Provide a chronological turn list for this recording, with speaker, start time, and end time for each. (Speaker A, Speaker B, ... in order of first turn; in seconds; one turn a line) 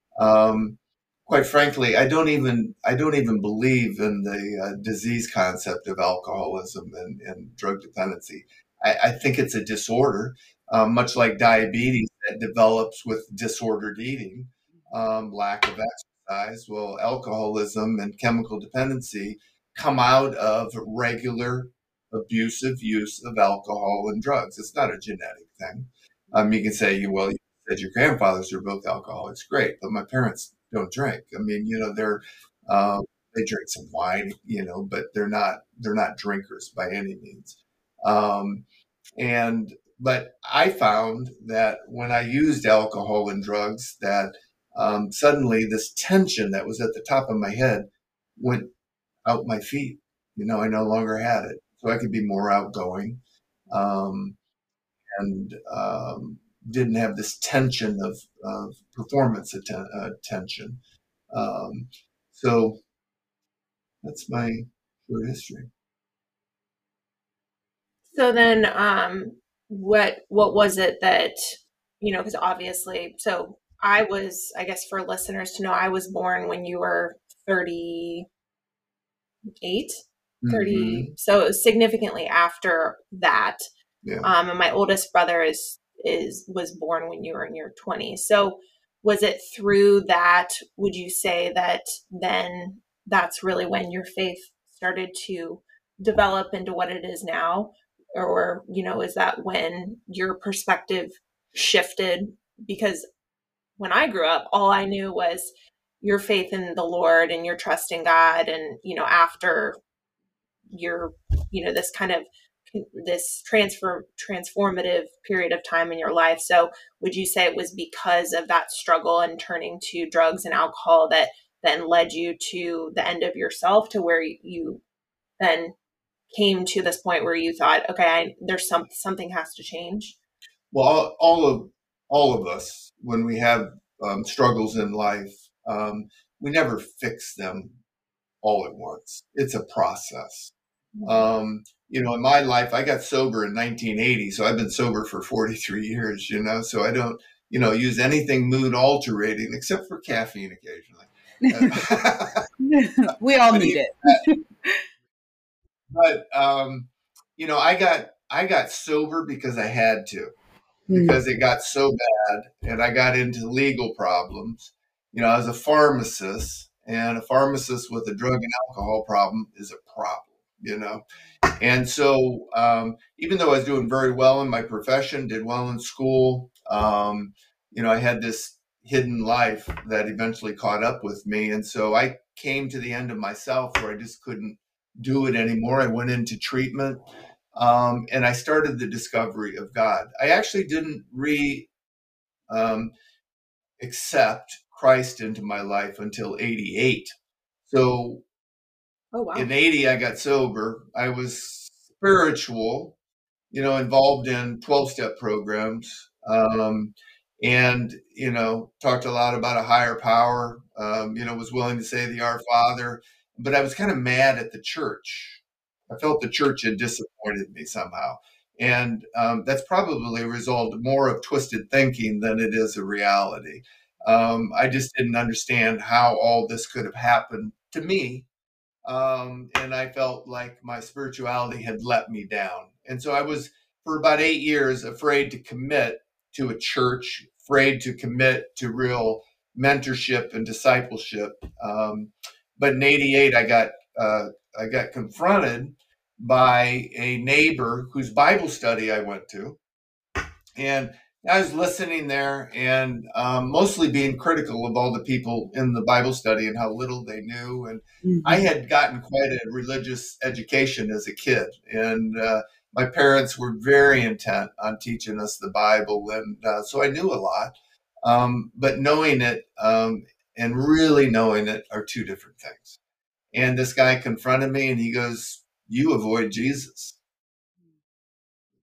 Speaker A: 0.2-38.6
Speaker A: 39.2-48.7
Speaker A: 49.2-54.3
Speaker A: 55.1-60.8
Speaker A: 61.3-62.8
Speaker A: 64.0-65.7
Speaker B: 68.1-78.3
Speaker B: 79.6-83.6
Speaker A: 80.4-81.1
Speaker A: 84.0-84.3
Speaker B: 84.2-103.1
Speaker B: 103.8-109.8
Speaker B: 110.7-124.8
Speaker B: 125.4-125.7
Speaker B: 126.3-130.2
Speaker A: 130.7-137.8
Speaker A: 138.4-140.5
Speaker B: 140.9-141.3
Speaker A: 141.0-152.4
Speaker C: 151.5-151.8
Speaker C: 152.6-154.8
Speaker A: 153.5-154.2
Speaker A: 155.9-160.3
Speaker C: 160.9-161.2
Speaker A: 160.9-171.0
Speaker A: 171.6-187.0
Speaker A: 187.6-191.7
Speaker A: 192.5-192.9
Speaker A: 193.8-197.1
Speaker A: 197.7-198.2
Speaker B: 199.1-199.5
Speaker A: 199.3-202.9
Speaker A: 203.5-228.3
Speaker A: 228.8-249.6
Speaker A: 250.6-272.8
Speaker C: 258.0-258.4
Speaker A: 273.3-277.0